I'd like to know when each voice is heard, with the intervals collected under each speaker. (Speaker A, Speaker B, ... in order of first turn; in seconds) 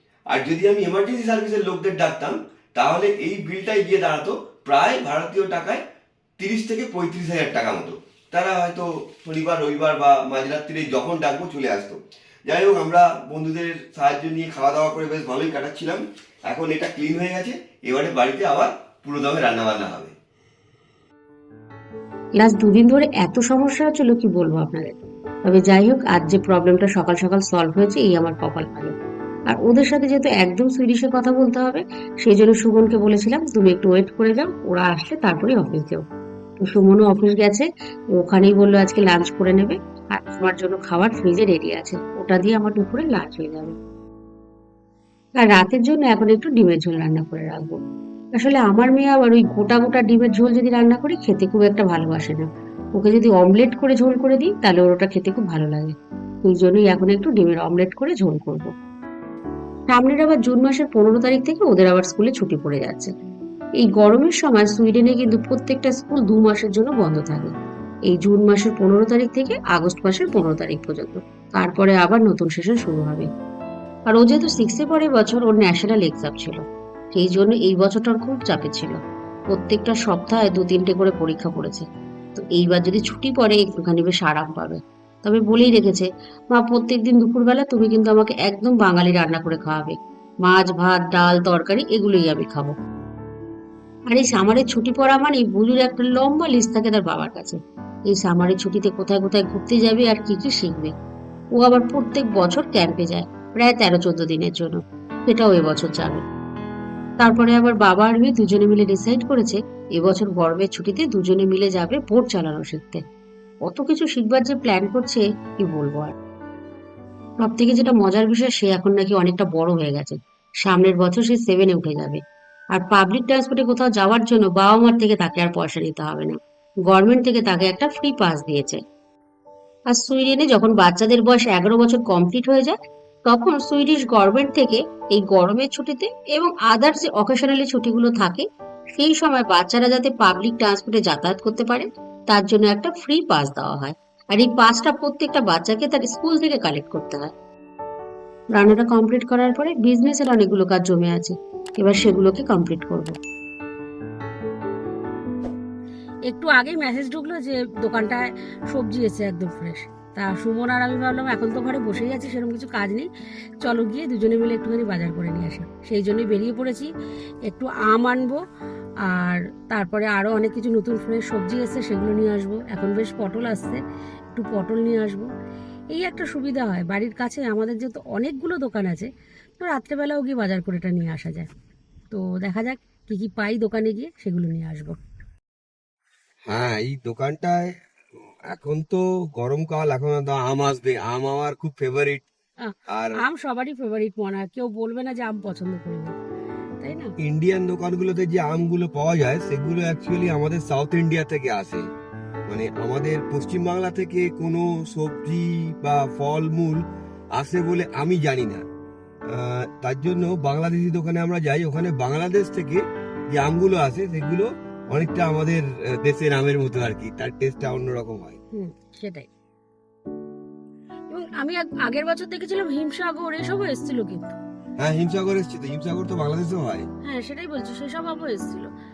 Speaker A: 0.3-5.8, 6.4-20.1, 186.5-187.7, 188.5-192.2, 192.9-193.2, 197.2-201.8, 202.5-206.8, 207.3-208.6, 209.3-218.4, 224.8-226.9
Speaker B: 22.4-28.9, 29.5-36.0, 36.6-43.7, 45.4-47.8, 48.3-58.7, 59.9-63.1, 63.8-67.5, 68.1-73.3, 74.1-92.7, 94.1-100.9, 101.5-106.2, 107.2-113.0, 113.6-116.1, 117.4-122.2, 122.7-128.8, 129.9-147.3, 148.5-153.2, 156.3-163.1, 163.6-166.9, 167.4-168.4, 169.0-173.8, 174.3-175.3, 175.9-179.1, 179.6-181.5, 182.1-185.0, 192.6-196.1, 196.8-197.1, 218.5-219.3, 221.1-224.4, 227.0-228.7